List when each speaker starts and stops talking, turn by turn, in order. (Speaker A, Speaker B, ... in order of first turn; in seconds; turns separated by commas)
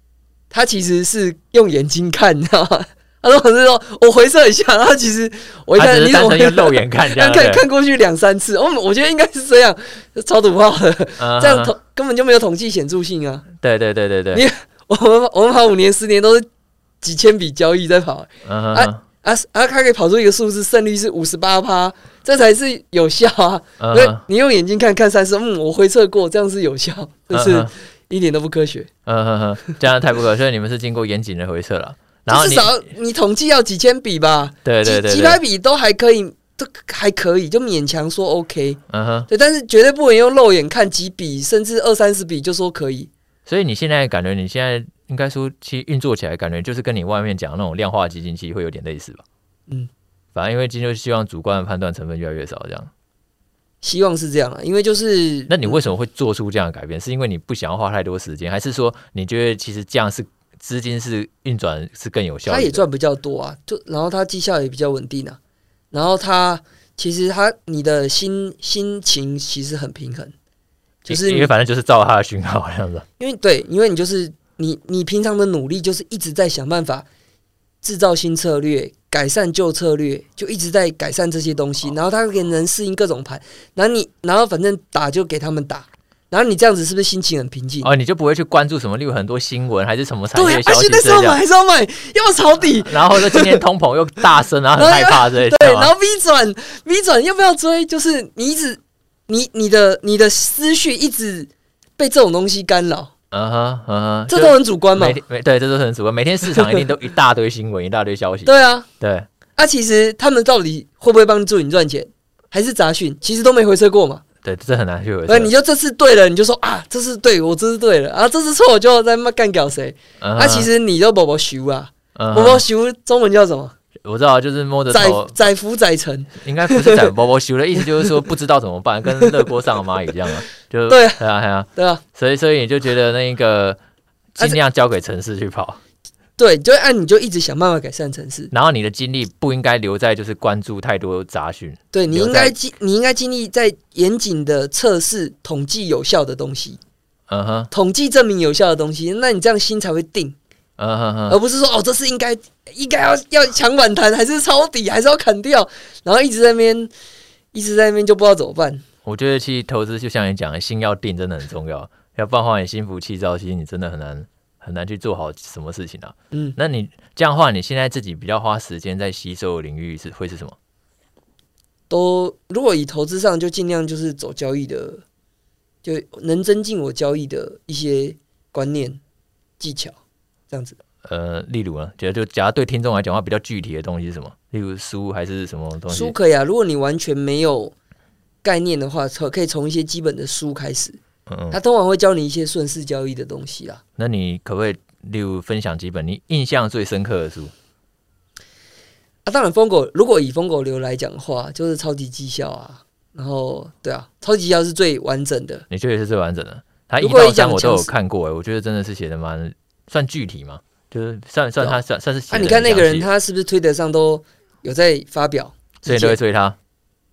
Speaker A: 0.5-13.5, Speaker B: 5.8-7.6, Speaker B: 11.2-11.7, Speaker B: 13.6-14.4, Speaker A: 14.3-16.5, Speaker A: 17.0-28.9, Speaker B: 18.4-19.0, Speaker B: 23.8-24.2, Speaker B: 27.3-27.7, Speaker B: 29.1-32.7, Speaker A: 32.3-43.1, Speaker B: 34.6-35.4, Speaker B: 38.9-39.3, Speaker B: 43.5-49.2, Speaker B: 50.4-52.9, Speaker A: 53.8-55.9, Speaker B: 55.5-62.8, Speaker A: 62.5-65.4, Speaker A: 65.9-70.3, Speaker A: 71.1-71.5, Speaker B: 71.1-73.0, Speaker A: 73.2-77.1, Speaker A: 77.8-87.9, Speaker B: 87.8-91.4, Speaker A: 90.3-93.6, Speaker B: 92.8-95.9, Speaker A: 94.8-103.1, Speaker B: 103.3-109.3, Speaker A: 104.3-105.2, Speaker A: 106.5-106.8, Speaker A: 108.5-108.9, Speaker A: 109.6-114.2, Speaker B: 114.4-115.5, Speaker A: 115.3-123.7, Speaker B: 120.2-120.7, Speaker B: 122.2-122.6, Speaker B: 124.0-125.3, Speaker A: 124.9-127.1, Speaker B: 126.4-133.8, Speaker A: 127.8-128.1, Speaker A: 130.9-131.2, Speaker A: 131.8-132.0, Speaker B: 134.3-135.8, Speaker A: 136.4-138.5, Speaker B: 138.5-142.6, Speaker A: 141.9-146.8, Speaker B: 147.3-147.7, Speaker A: 147.7-150.4, Speaker B: 150.8-151.4, Speaker A: 151.3-156.9, Speaker A: 157.5-158.8, Speaker B: 159.1-170.6, Speaker A: 171.9-175.0, Speaker A: 175.8-179.0, Speaker A: 179.6-180.0, Speaker A: 180.5-180.8, Speaker B: 181.0-186.2, Speaker A: 185.9-187.7, Speaker A: 188.4-191.0, Speaker B: 191.3-191.6, Speaker A: 191.5-193.8, Speaker B: 194.0-197.5, Speaker A: 199.2-205.7, Speaker B: 205.7-213.1, Speaker A: 207.0-207.9, Speaker A: 211.6-216.2, Speaker B: 215.8-216.6